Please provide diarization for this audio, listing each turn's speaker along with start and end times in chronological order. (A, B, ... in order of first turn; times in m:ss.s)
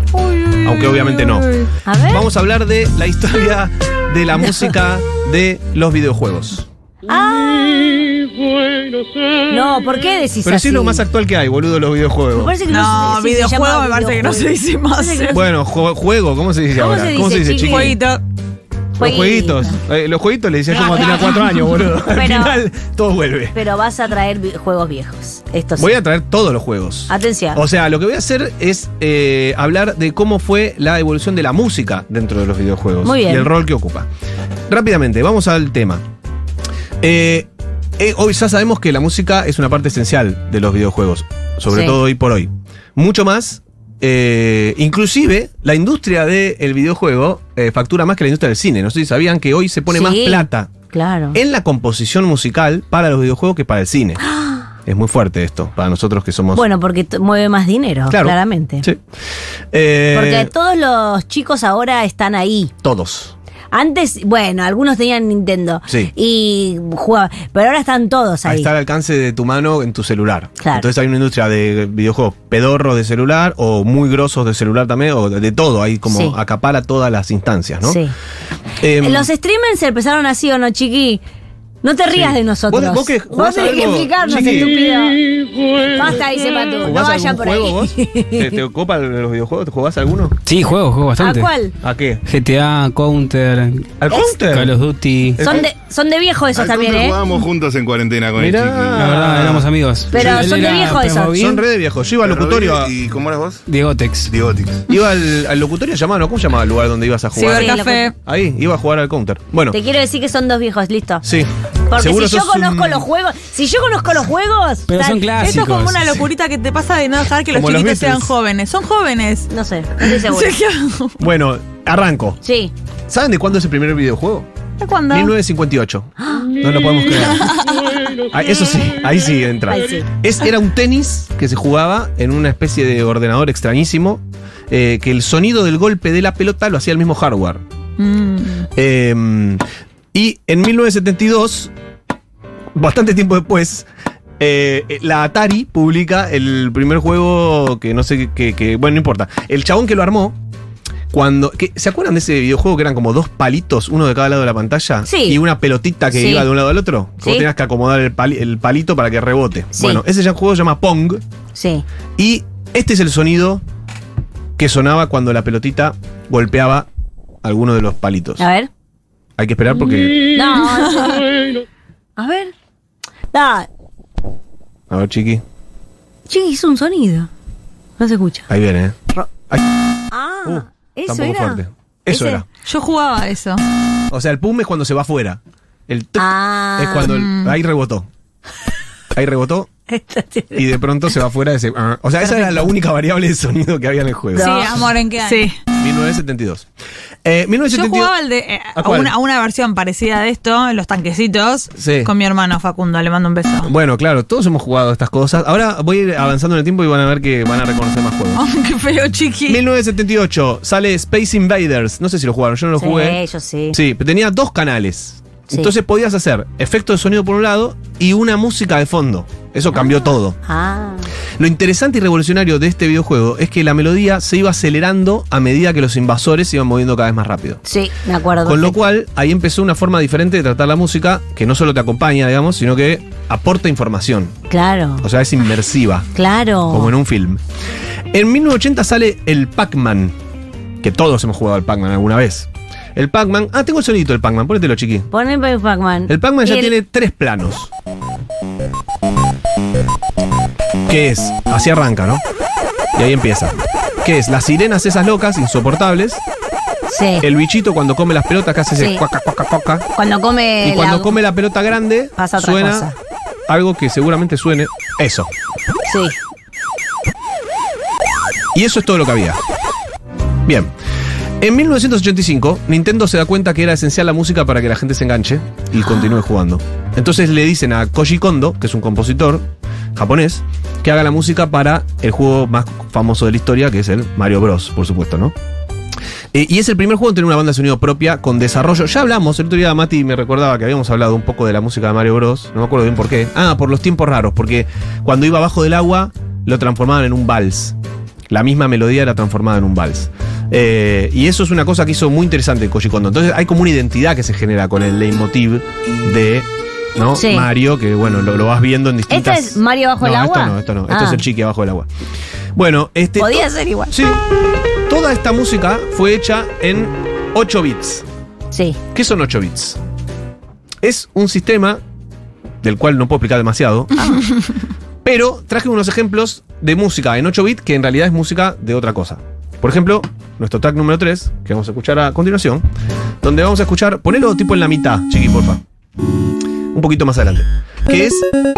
0:00.1-0:01.7 A
0:00.6-0:06.7 B
0:01.8-0:02.3 C
0:07.0-0:08.1 C
0:09.5-0:11.0 C
0:10.4-0:12.5 B
0:12.4-0:15.4 C
0:12.7-0:15.4 A
0:15.3-0:18.0 B
0:16.7-0:18.0 C
0:17.6-0:18.2 A
0:19.0-0:19.8 C
0:19.0-0:23.6 B
0:20.8-0:21.5 A
0:22.0-0:22.6 C
0:23.5-0:25.9 C
0:25.8-0:34.1 B
0:27.1-0:27.6 C
0:33.0-0:33.5 C
0:34.7-0:36.0 B
0:37.0-0:50.7 B
0:41.7-0:42.0 C
0:49.9-0:51.4 C
0:51.3-0:54.2 B
0:54.2-0:54.7 C
0:54.8-0:56.6 B
0:56.5-0:58.8 C
0:58.1-0:59.0 B
0:59.7-1:00.5 B
1:00.1-1:02.7 C
1:02.8-1:03.3 B
1:03.7-1:08.7 C
1:08.4-1:18.0 B
1:10.6-1:10.9 C
1:16.1-1:16.4 C
1:17.8-1:18.1 C
1:18.8-1:19.3 B
1:19.0-1:21.2 C
1:21.8-1:25.2 C
1:22.1-1:24.8 B
1:25.9-1:28.6 C
1:26.8-1:30.4 B
1:30.4-1:31.5 D
1:31.2-1:31.7 C
1:31.8-1:32.2 B
1:32.2-1:35.4 D
1:34.0-1:34.8 B
1:35.4-1:35.7 B
1:35.4-1:37.2 C
1:36.5-1:39.6 E
1:38.4-1:42.9 B
1:39.0-1:41.6 D
1:40.1-1:41.4 C
1:42.2-1:43.6 E
1:43.7-1:44.3 D
1:44.3-1:44.8 E
1:44.9-1:49.8 B
1:47.3-1:48.1 A
1:47.5-1:48.1 C
1:49.7-1:51.2 C
1:51.2-1:53.1 B
1:51.9-1:55.3 C
1:54.9-1:56.2 D
1:55.4-1:59.5 A
1:57.5-1:58.3 B
1:59.5-2:00.6 C
2:00.0-2:01.2 A
2:01.2-2:02.4 B
2:02.4-2:02.7 C
2:03.1-2:04.5 B
2:04.8-2:05.3 A
2:05.1-2:07.5 B
2:06.2-2:06.5 C
2:07.2-2:07.9 A
2:08.3-2:17.6 B
2:09.7-2:10.0 C
2:18.0-2:18.7 A
2:18.7-2:19.6 B
2:20.1-2:21.7 B
2:22.7-2:23.9 B
2:24.4-2:30.4 B
2:31.1-2:41.2 B
2:35.0-2:35.4 C
2:36.1-2:36.5 C
2:37.2-2:37.5 C
2:39.7-2:40.0 C
2:41.5-2:41.8 C
2:42.2-2:43.6 B
2:44.6-2:46.9 B
2:47.4-2:48.4 B
2:48.4-2:48.7 C
2:49.4-2:50.2 B
2:50.3-2:51.2 C
2:52.2-2:52.5 C
2:53.3-2:53.7 C
2:54.9-2:55.4 B
2:56.3-2:57.3 C
2:58.0-2:58.5 C
2:58.5-2:59.6 B
3:00.1-3:02.4 C
3:00.4-3:02.4 B
3:02.6-3:03.6 A
3:04.1-3:08.1 B
3:06.2-3:07.1 C
3:07.0-3:07.6 A
3:09.1-3:09.7 B
3:09.9-3:10.7 C
3:10.5-3:14.9 B
3:12.2-3:12.7 C
3:14.3-3:15.5 C
3:14.4-3:15.6 A
3:15.8-3:16.7 B
3:17.2-3:18.1 B
3:17.7-3:23.7 A
3:18.8-3:19.1 B
3:21.8-3:22.1 B
3:23.6-3:28.4 B
3:28.3-3:29.6 A
3:29.5-3:33.2 B
3:32.8-3:33.8 C
3:33.7-3:40.4 B
3:39.7-3:41.1 C
3:41.4-3:47.6 B
3:47.6-3:48.8 C
3:48.4-3:54.4 B
3:54.5-3:55.0 C
3:55.0-3:56.1 B
3:56.1-3:56.9 C
3:56.7-3:57.4 B
3:58.1-4:00.1 B
4:00.8-4:05.1 B
4:05.1-4:06.7 C
4:06.1-4:07.7 B
4:10.9-4:12.2 B
4:12.9-4:16.2 B
4:16.9-4:17.3 C
4:17.2-4:19.8 B
4:18.7-4:19.0 C
4:20.0-4:21.2 C
4:20.6-4:22.9 B
4:22.2-4:22.9 C
4:23.5-4:25.3 B
4:25.9-4:26.1 C
4:28.5-4:29.4 B
4:30.4-4:30.7 B
4:31.4-4:45.3 B
4:35.8-4:36.2 C
4:46.3-4:57.8 B
4:58.3-5:11.9 B
5:07.2-5:07.5 C
5:09.1-5:11.2 C
5:12.5-5:14.2 B
5:13.2-5:13.9 C
5:14.9-5:18.0 B
5:18.5-5:18.8 C
5:18.9-5:19.8 B
5:20.8-5:21.8 B
5:22.6-5:24.2 B
5:25.0-5:32.6 B
5:33.2-5:35.6 B
5:36.7-5:38.3 B